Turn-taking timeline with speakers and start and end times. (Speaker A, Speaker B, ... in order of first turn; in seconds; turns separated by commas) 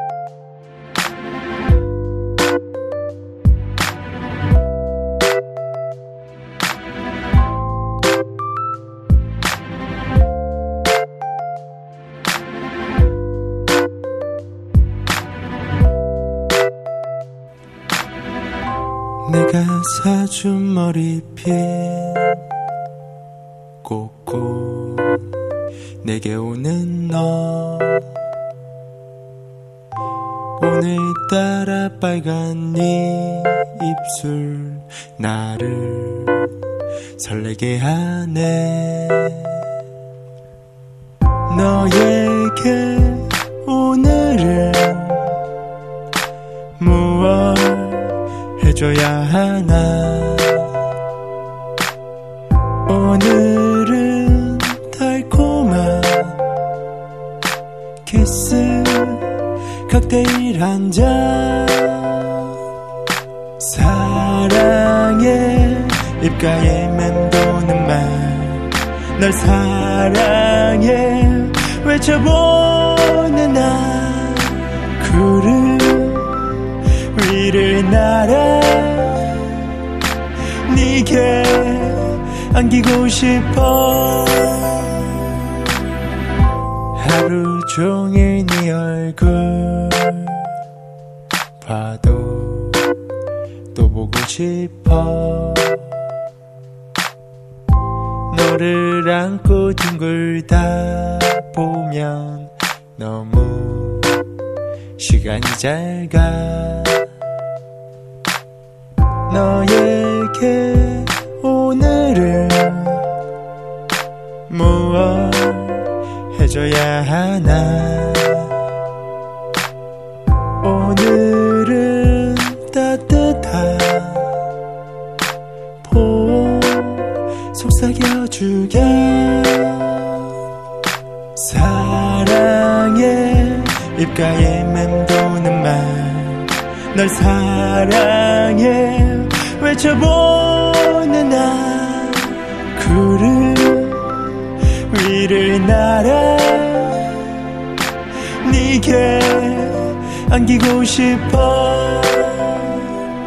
Speaker A: 19.2-22.4, Speaker A: 23.8-25.3, Speaker A: 26.0-28.1, Speaker A: 30.6-36.5, Speaker A: 37.2-39.6, Speaker A: 41.5-45.4, Speaker A: 46.8-50.7, Speaker A: 52.9-56.5, Speaker A: 58.0-59.3, Speaker A: 59.9-62.5, Speaker A: 63.6-79.7, Speaker A: 80.7-85.3, Speaker A: 86.9-90.5, Speaker A: 91.6-92.9, Speaker A: 93.7-95.9, Speaker A: 98.3-104.2, Speaker A: 105.0-107.0, Speaker A: 109.3-113.1, Speaker A: 114.5-118.6, Speaker A: 120.6-124.3, Speaker A: 125.8-130.3, Speaker A: 131.4-147.4, Speaker A: 148.4-153.0